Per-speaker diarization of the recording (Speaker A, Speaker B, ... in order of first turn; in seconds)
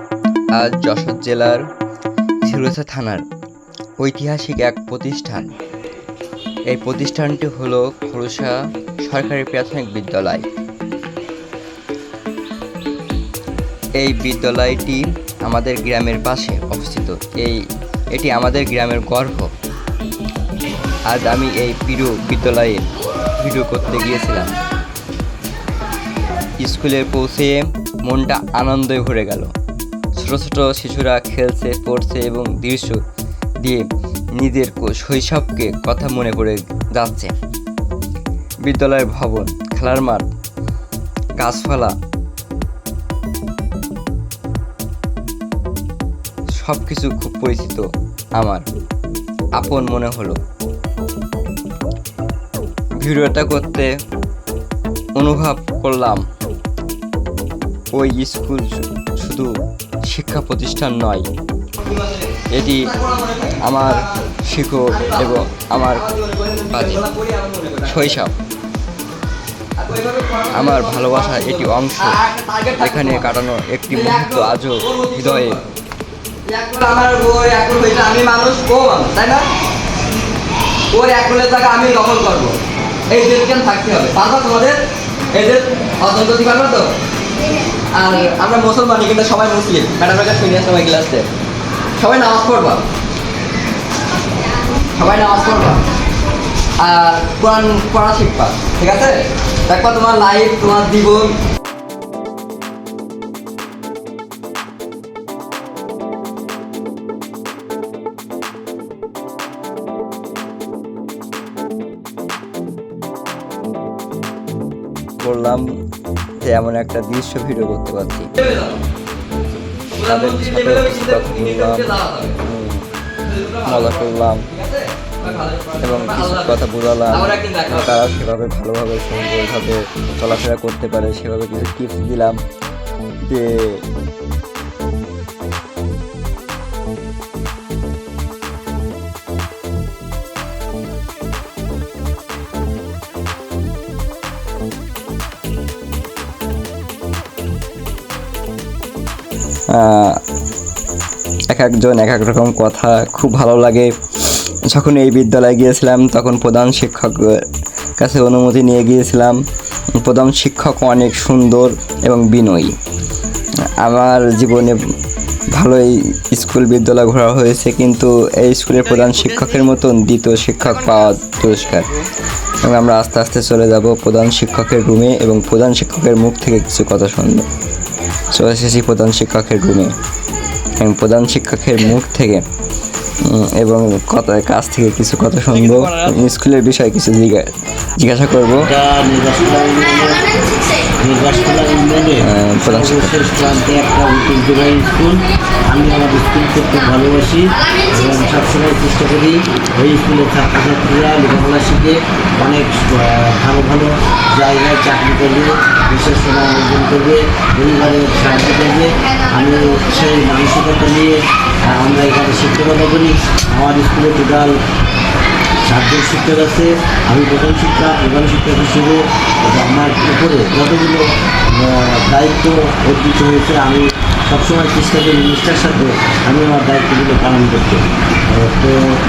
Speaker A: 0.6-1.6, 2.4-3.2, 4.0-5.5, 6.7-10.4, 14.0-17.6, 18.1-19.5, 21.1-22.8, 23.4-24.5, 26.6-29.5, 30.2-33.0, 34.4-37.3, 38.6-40.3, 41.4-41.9, 46.5-47.8, 48.4-48.6, 49.6-50.4, 53.0-53.9, 55.2-56.2, 57.9-59.5, 60.1-61.2, 62.5-62.9, 63.6-66.0, 66.7-67.0, 67.9-68.3, 70.5-72.2, 72.8-75.6, 115.2-115.7, 116.4-118.3, 120.0-122.8, 123.6-124.5, 125.8-132.4, 133.3-133.8, 149.7-150.2, 151.5-153.9, 154.7-157.3, 158.0-159.4, 160.0-162.7, 163.7-164.9, 165.5-171.9, 172.6-177.4, 178.3-179.9, 180.8-182.4, 183.2-187.5, 188.0-188.7, 192.2-193.2
Speaker B: 61.8-64.3, 64.8-68.2, 69.8-73.3, 73.9-75.7, 76.5-79.4, 80.9-82.6, 83.1-84.8, 85.3-86.9, 88.0-91.2, 92.0-92.8, 94.9-95.9, 96.8-101.3, 118.4-118.8, 120.0-122.3, 123.2-128.0, 168.9-169.6, 170.6-171.9, 185.6-185.9
Speaker C: 188.6-214.5, 215.7-228.8